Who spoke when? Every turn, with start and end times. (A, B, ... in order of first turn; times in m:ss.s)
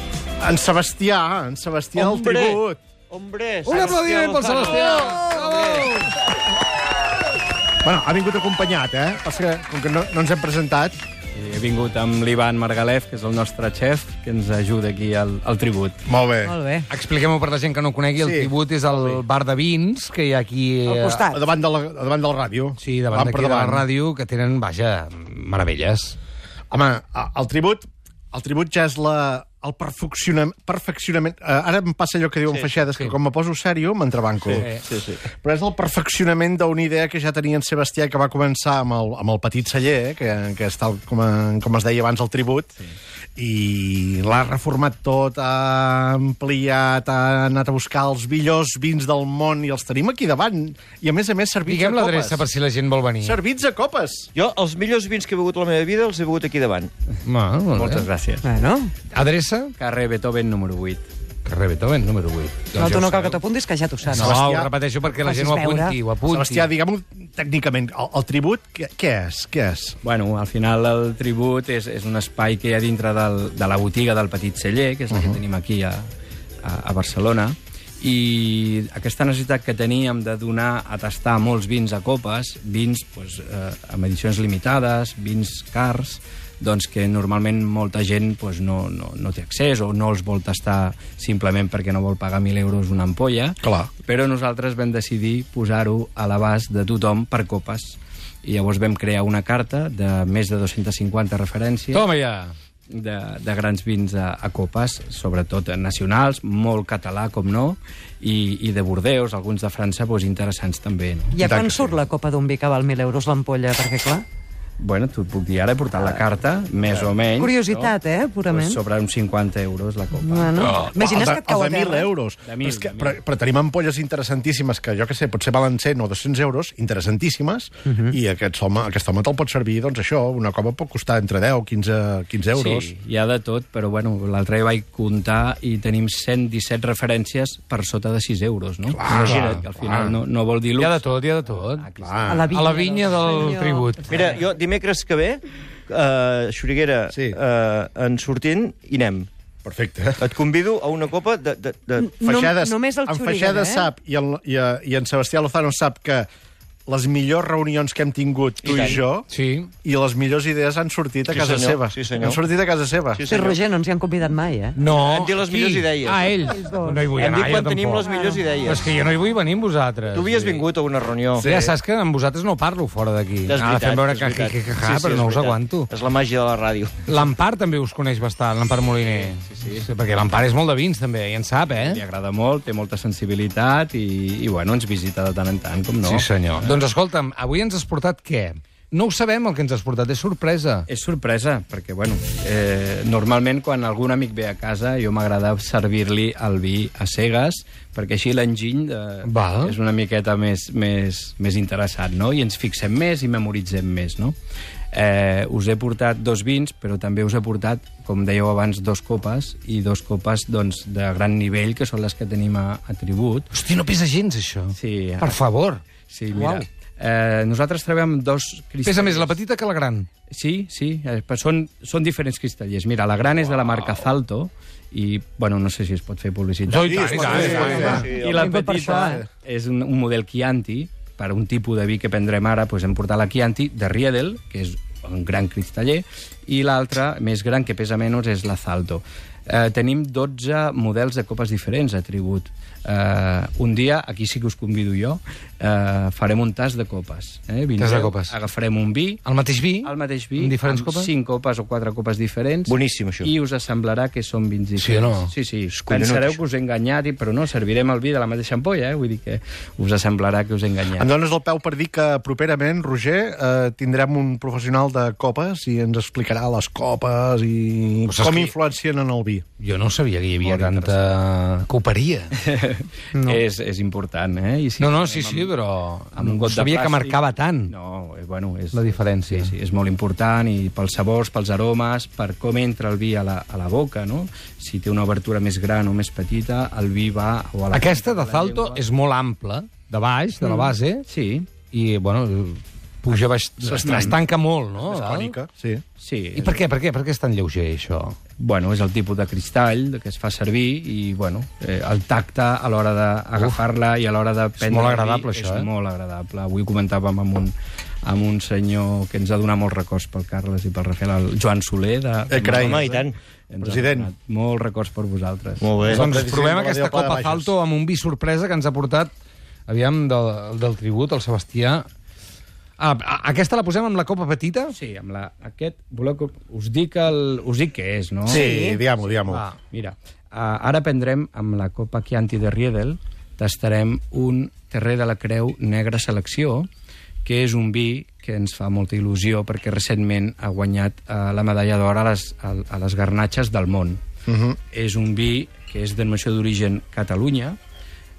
0:00.4-0:02.8 A
0:02.0-0:06.0 B
0:03.6-0:06.1 C
0:07.8-0:11.0 A
0:11.3-0:16.0 D
0:16.1-0:16.6 A
0:16.4-0:16.9 E
0:16.9-0:21.2 C
0:18.2-0:18.5 A
0:20.8-0:21.5 E
0:21.3-0:23.8 A
0:22.8-0:26.2 C
0:26.7-0:34.7 A
0:32.4-0:32.9 B
0:34.4-0:35.2 B
0:34.5-0:34.8 C
0:35.3-0:42.7 A
0:43.4-0:52.5 A
0:51.6-0:53.4 C
0:53.2-0:54.3 A
0:54.3-0:56.9 B
0:57.2-0:58.0 C
0:57.7-0:58.4 D
0:58.4-0:58.9 E
0:59.1-0:59.7 C
0:59.8-1:01.1 D
1:01.4-1:03.4 C
1:02.7-1:04.4 E
1:04.1-1:06.7 C
1:04.2-1:04.7 A
1:05.2-1:06.0 E
1:06.3-1:10.0 A
1:10.0-1:16.1 D
1:15.1-1:15.4 A
1:16.6-1:42.0 D
1:33.6-1:33.9 A
1:41.9-1:42.5 C
1:42.9-1:51.4 D
1:51.3-1:54.2 E
1:51.4-1:52.0 A
1:54.8-2:00.8 D
1:57.4-1:58.8 E
2:00.2-2:02.1 E
2:00.6-2:01.0 C
2:00.9-2:12.9 A
2:02.4-2:03.2 D
2:07.9-2:08.1 E
2:12.5-2:23.3 D
2:18.9-2:19.5 A
2:19.1-2:20.1 C
2:20.8-2:21.9 C
2:22.0-2:22.5 A
2:22.3-2:23.9 E
2:22.5-2:24.1 C
2:24.1-2:29.3 B
2:27.1-2:27.4 A
2:29.6-2:30.3 A
2:30.2-2:32.2 B
2:32.0-2:33.9 E
2:32.2-2:36.3 A
2:36.9-2:39.3 A
2:38.6-2:39.0 B
2:39.3-2:39.7 C
2:39.8-2:43.2 A
2:41.3-2:42.4 B
2:43.1-2:43.6 B
2:43.3-2:44.8 E
2:44.8-2:48.1 C
2:44.8-2:46.5 B
2:46.6-2:47.1 E
2:47.1-2:49.0 B
2:48.0-2:48.6 E
2:48.6-2:50.6 C
2:50.1-2:51.7 B
2:51.4-2:55.9 C
2:53.5-2:56.9 B
2:57.0-3:02.0 C
2:59.0-2:59.9 D
3:01.7-3:06.8 D
3:06.0-3:10.8 C
3:10.9-3:24.4 D
3:19.2-3:19.7 C
3:24.9-3:33.5 D
3:33.5-3:35.8 C
3:34.7-3:35.4 D
3:36.1-3:39.4 D
3:36.3-3:36.6 E
3:38.8-3:40.1 C
3:40.3-4:09.2 D
3:46.7-3:48.1 C
3:46.8-3:48.0 A
3:47.3-3:48.5 B
3:47.8-3:49.2 E
3:49.0-3:49.2 A
4:07.8-4:08.3 C
4:09.2-4:11.1 C
4:09.8-4:21.1 D
4:12.7-4:13.3 B
4:14.8-4:15.3 C
4:15.7-4:16.4 B
4:20.9-4:29.4 A
4:28.1-4:28.5 C
4:29.6-4:32.3 C
4:30.4-4:31.1 D
4:32.4-4:35.6 D
4:34.8-4:37.7 C
4:36.1-4:48.8 D
4:38.7-4:39.5 C
4:47.7-4:51.0 C
4:51.1-4:51.5 D
4:51.7-4:55.3 C
4:53.6-4:54.2 A
4:53.8-4:54.2 D
4:54.8-4:55.8 A
4:56.0-4:56.6 D
4:56.4-4:58.2 C
4:58.4-5:16.0 D
5:04.6-5:05.7 C
5:12.3-5:12.8 A
5:12.5-5:13.1 B
5:13.6-5:14.1 A
5:15.6-5:16.0 B
5:15.9-5:19.1 C
5:15.9-5:17.5 A
5:19.7-5:21.8 C
5:22.8-5:24.7 C
5:24.7-5:28.5 D
5:28.3-5:29.4 A
5:28.3-5:28.8 E
5:29.3-5:29.5 C
5:29.7-5:36.7 D
5:37.2-5:44.0 D
5:44.3-5:44.6 A
5:44.7-5:47.6 D